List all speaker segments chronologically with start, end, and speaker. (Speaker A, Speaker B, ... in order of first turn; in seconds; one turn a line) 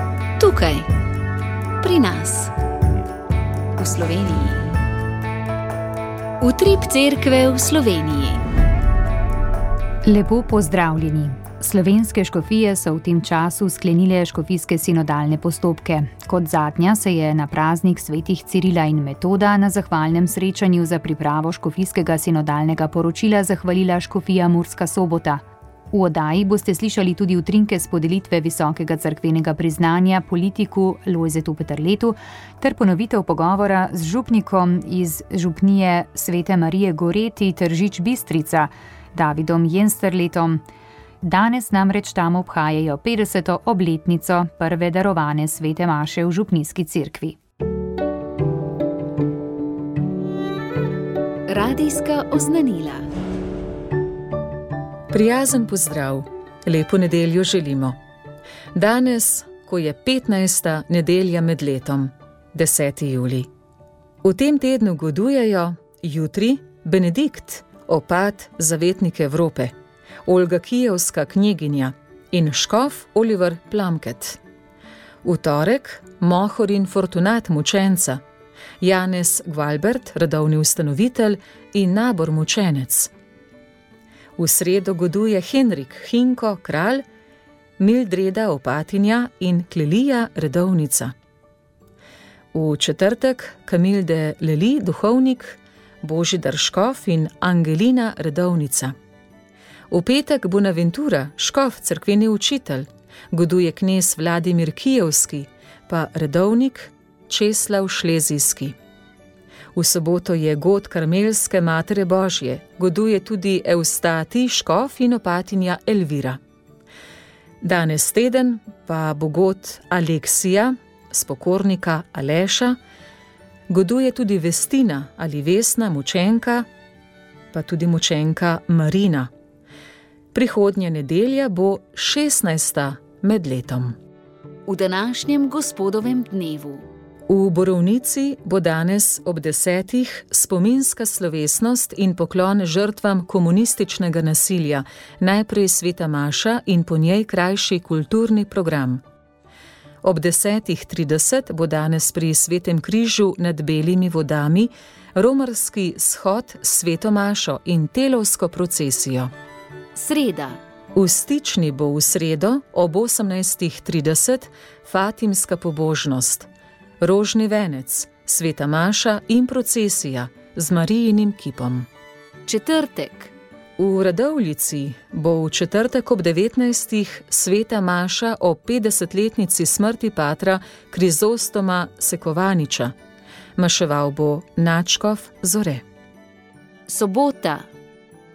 Speaker A: 0.4-0.9
Speaker A: 1.8-2.5
Speaker A: 3.8-4.7
Speaker A: 6.4-8.4
Speaker B: 10.0-40.6
Speaker B: 41.2-47.4
Speaker A: 51.5-53.0
Speaker C: 55.1-58.0
Speaker C: 58.7-63.5
Speaker C: 64.2-69.7
Speaker C: 70.2-74.4
Speaker C: 75.2-78.2
Speaker C: 78.8-83.1
Speaker C: 84.4-87.0
Speaker C: 87.8-91.1
Speaker C: 92.5-98.9
Speaker C: 99.9-108.8
Speaker C: 109.7-116.4
Speaker C: 117.6-122.8
Speaker C: 123.7-126.7
Speaker C: 127.5-129.3
Speaker C: 130.3-133.9
Speaker A: 134.7-136.8
Speaker C: 137.3-149.0
Speaker C: 150.0-159.3
Speaker A: 159.9-160.6
Speaker C: 160.9-166.5
Speaker C: 167.0-171.9
Speaker A: 172.4-173.3
Speaker C: 173.8-182.9
Speaker C: 183.6-185.8
Speaker A: 186.9-187.7